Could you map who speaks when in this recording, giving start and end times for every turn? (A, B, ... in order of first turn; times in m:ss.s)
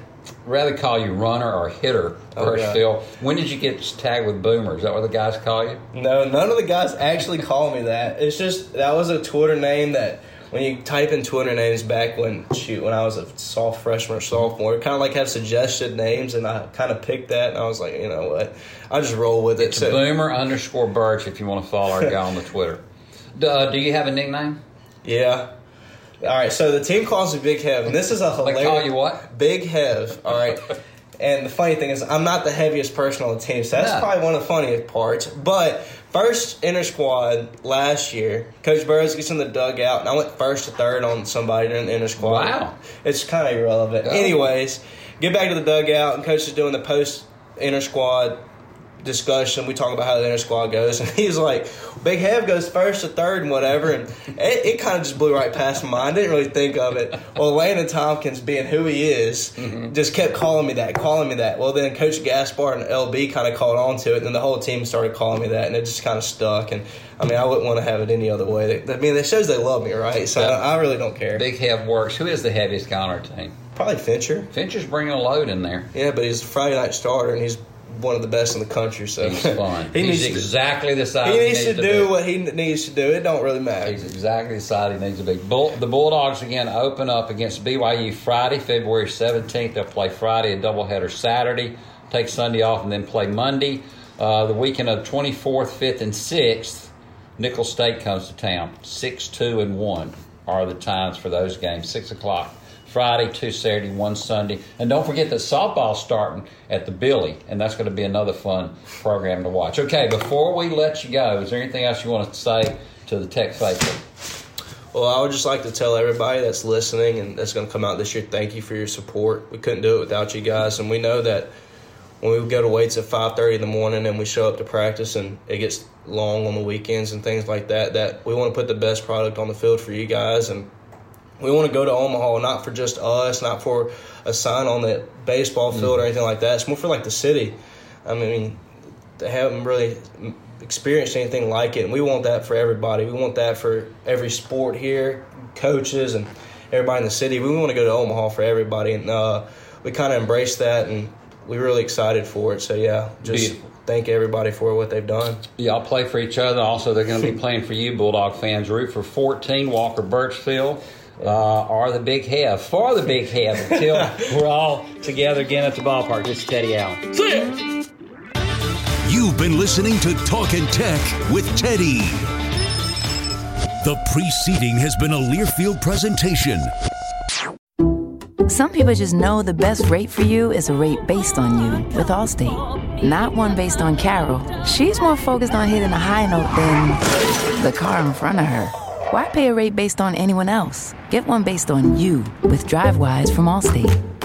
0:00.4-0:05.8 A
0:02.4-0:02.8 B
0:05.9-0:20.0 B
0:19.6-0:22.8 A
0:23.3-0:24.6 A
0:25.0-0:25.5 B
0:26.2-0:48.4 B
0:28.4-0:29.3 A
0:33.7-0:34.1 A
0:42.2-0:42.8 A
0:44.0-0:44.4 A
0:49.0-1:11.4 B
0:59.6-0:59.9 A
1:11.3-1:13.6 A
1:13.7-1:14.5 B
1:14.5-1:15.9 A
1:15.9-1:20.5 B
1:19.2-1:22.1 A
1:21.2-1:24.0 B
1:23.8-1:54.0 A
1:54.9-2:01.5 B
2:02.2-2:10.7 B
2:11.4-2:18.6 B
2:19.2-2:35.4 B
2:33.2-2:33.6 A
2:35.6-2:47.5 A
2:43.7-2:44.4 B
2:49.0-2:52.3 C
2:53.8-2:56.7 C
2:58.4-3:07.0 D
3:07.6-3:14.0 D